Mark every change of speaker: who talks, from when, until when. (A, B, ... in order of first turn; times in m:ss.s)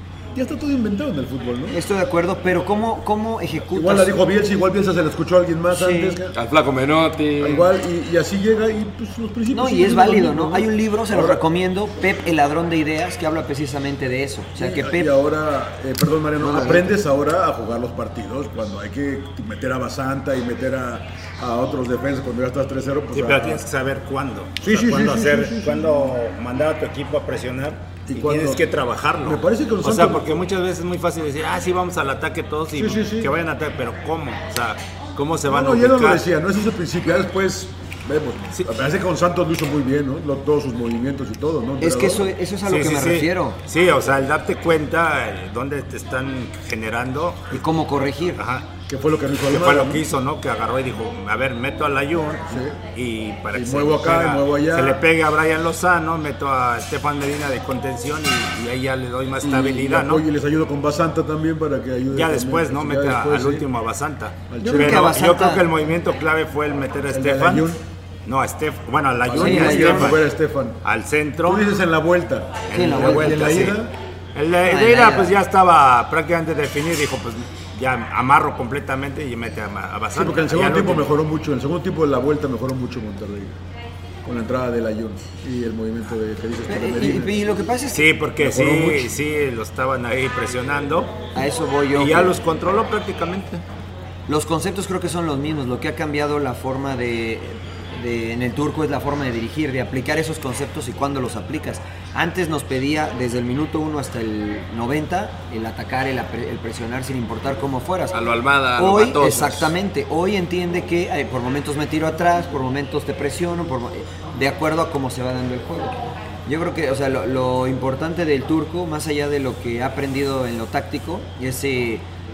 0:00.3-0:01.8 A
0:01.7-0:04.1 B
0:03.7-0:06.4 A
0:05.7-0:06.2 B
0:06.3-0:07.7 C
0:07.4-0:11.4 A
0:09.5-0:15.1 B
0:14.6-0:23.6 A
0:16.4-0:16.9 B
0:23.1-0:36.2 D
0:24.6-0:26.1 A
0:28.0-0:28.6 A
0:29.2-0:30.4 A
0:32.7-0:33.3 A
0:35.4-0:42.3 A
0:41.8-0:43.6 B
0:42.6-0:47.6 D
0:47.5-0:48.4 B
0:48.4-0:48.7 D
0:48.9-0:50.0 A
0:49.5-1:00.2 D
0:52.5-0:52.8 A
0:53.5-0:55.0 A
0:59.4-1:03.7 A
1:02.1-1:07.7 D
1:04.5-1:05.2 A
1:04.6-1:05.6 B
1:07.1-1:07.8 A
1:08.2-1:10.3 D
1:09.2-1:10.8 A
1:09.3-1:10.2 B
1:10.8-1:11.6 D
1:11.4-1:13.9 A
1:12.7-1:13.8 D
1:12.7-1:13.7 B
1:14.3-1:21.1 D
1:14.6-1:15.4 B
1:20.1-1:23.6 A
1:24.2-1:27.4 A
1:26.7-1:28.0 B
1:27.9-1:31.3 D
1:28.4-1:29.1 A
1:31.3-1:32.4 B
1:31.9-1:33.6 D
1:34.3-1:48.1 B
1:48.1-1:49.7 C
1:48.8-2:02.0 B